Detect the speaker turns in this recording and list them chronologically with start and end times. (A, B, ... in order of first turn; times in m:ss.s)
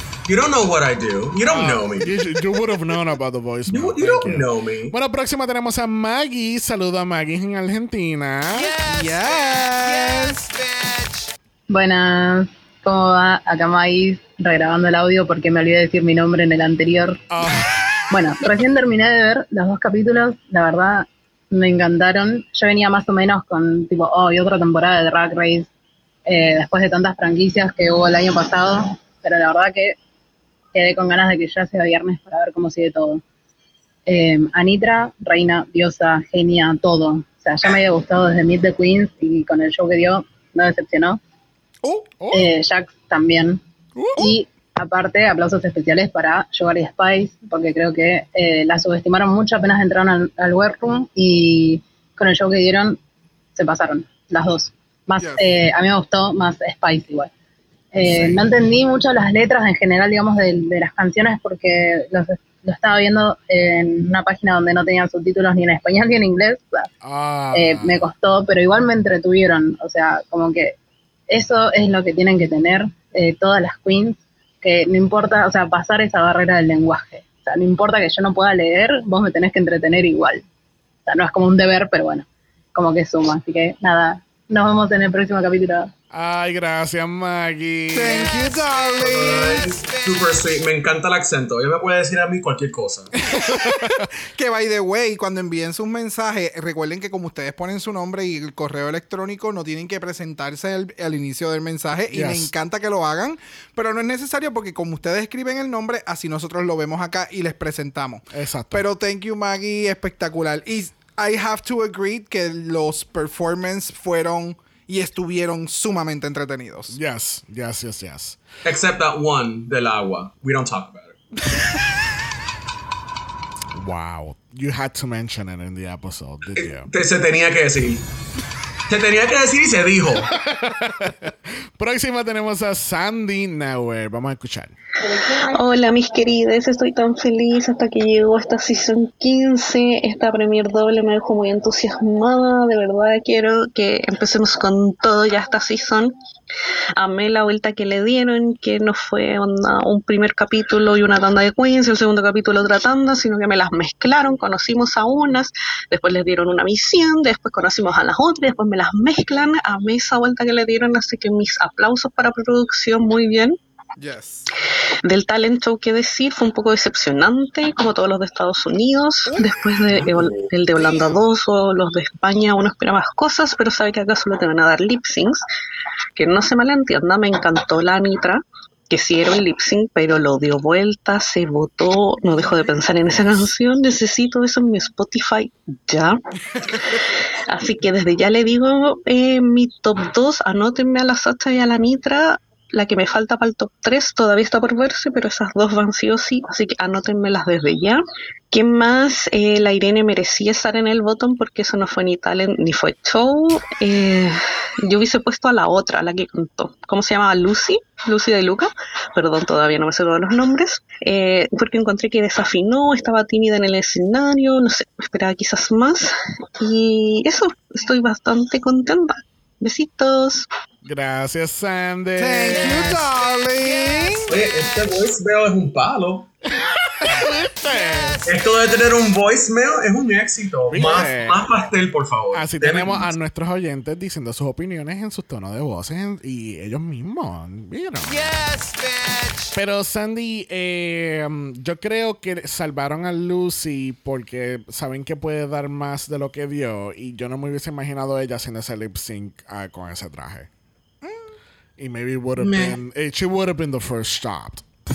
0:00.3-0:02.1 A
0:01.4-0:08.8 B
0:03.7-0:04.9 A
0:08.8-0:10.5 C
0:11.7-0:17.2 D
0:17.3-0:17.8 B
0:18.1-0:25.7 D
0:26.3-0:30.0 D
0:30.7-0:33.2 D
0:34.1-0:41.2 D
0:41.8-0:42.1 C
0:42.2-0:42.5 B
0:42.3-0:43.6 D
0:44.0-0:44.3 B
0:44.2-0:53.0 D
0:53.6-0:57.3 D
0:55.2-0:55.6 C
0:57.9-1:06.9 D
0:58.0-0:58.4 B
1:07.0-1:08.0 B
1:07.5-1:10.8 D
1:11.3-1:20.4 D
1:21.1-1:25.9 D
1:26.1-1:28.4 B
1:27.9-1:29.6 C
1:29.0-1:33.1 A
1:33.2-1:57.0 C
1:33.5-1:34.1 B
1:42.1-1:42.5 B
1:48.3-1:48.8 B
1:56.9-1:58.4 B
1:58.6-2:01.2 A
2:03.7-2:06.9 B
2:06.6-2:08.1 A
2:08.9-2:10.3 A
2:10.3-2:14.8 B
2:15.5-2:26.1 E
2:27.0-2:43.6 E
2:44.0-2:44.4 C
2:45.0-2:55.4 E
2:56.2-3:06.2 E
3:07.5-3:18.0 E
3:18.5-3:40.5 E
3:40.8-3:43.1 B
3:42.2-3:44.4 C
3:44.3-3:46.3 A
3:46.6-3:48.3 B
3:48.3-3:53.1 A
3:50.7-3:51.5 B
3:52.3-3:58.4 B
3:59.5-4:10.5 B
4:11.0-4:11.4 C
4:11.8-4:14.6 B
4:12.4-4:12.8 A